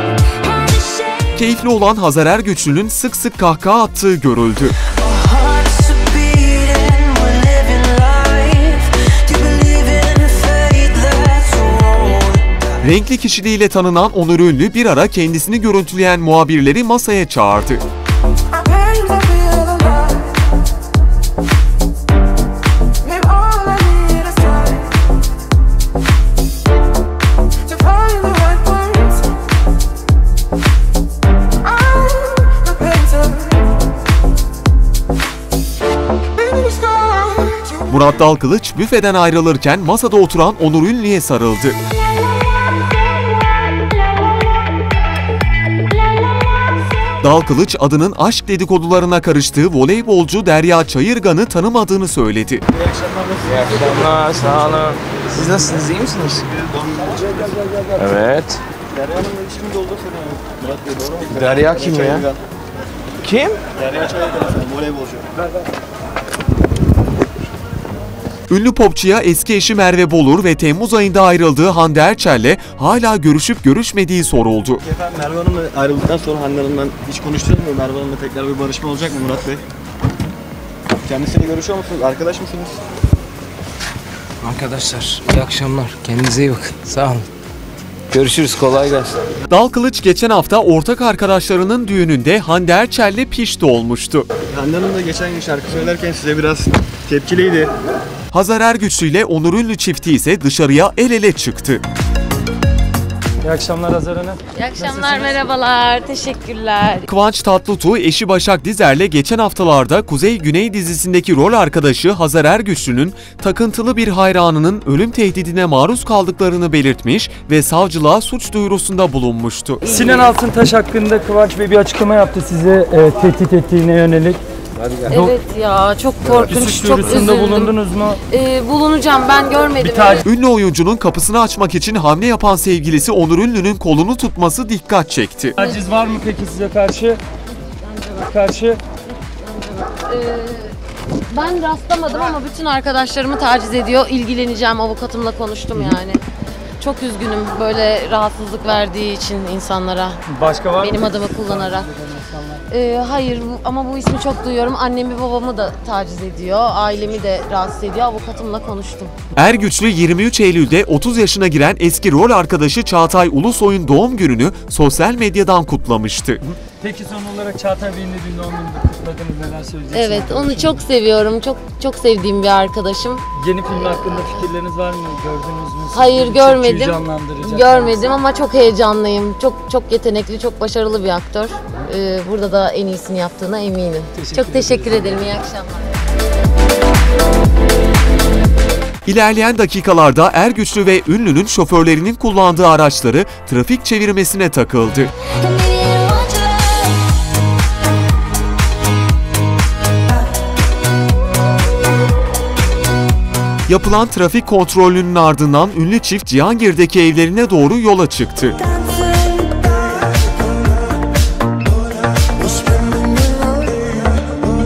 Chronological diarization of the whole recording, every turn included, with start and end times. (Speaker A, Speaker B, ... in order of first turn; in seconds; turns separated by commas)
Speaker A: 0.4-1.3, Speaker B: 1.3-4.8, Speaker A: 5.0-12.4, Speaker B: 12.8-17.8, Speaker A: 18.7-19.7, Speaker A: 23.1-24.6, Speaker B: 37.9-41.8, Speaker B: 47.2-52.6, Speaker C: 52.7-54.2, Speaker D: 53.5-56.5, Speaker C: 56.5-57.5, Speaker D: 58.0-58.6, Speaker C: 58.9-62.4, Speaker D: 61.3-62.2, Speaker D: 63.2-63.6, Speaker C: 63.7-65.3, Speaker B: 68.5-74.8, Speaker C: 74.8-79.6, Speaker C: 81.0-82.8, Speaker D: 84.4-87.3, Speaker D: 88.1-89.2, Speaker B: 89.5-94.3, Speaker C: 94.5-97.7, Speaker B: 98.3-101.8, Speaker E: 103.4-105.4, Speaker F: 104.5-107.1, Speaker B: 107.1-119.8, Speaker F: 119.8-120.3, Speaker E: 119.8-124.4, Speaker E: 125.1-125.3, Speaker F: 125.1-127.7, Speaker E: 126.3-128.2, Speaker F: 128.3-130.2, Speaker E: 129.8-130.2, Speaker B: 130.2-135.6, Speaker E: 135.6-137.2, Speaker F: 137.8-138.3, Speaker E: 138.3-138.8, Speaker F: 139.3-140.7, Speaker F: 141.3-146.2, Speaker F: 146.8-150.2, Speaker E: 150.3-152.6, Speaker F: 150.8-151.9, Speaker F: 152.7-159.1, Speaker B: 159.3-166.4, Speaker E: 166.8-170.8, Speaker F: 169.9-174.4, Speaker E: 173.3-178.1, Speaker F: 175.9-185.9, Speaker E: 184.2-185.2, Speaker B: 189.0-195.1, Speaker A: 195.4-197.0, Speaker B: 203.7-208.6, Speaker A: 208.7-209.7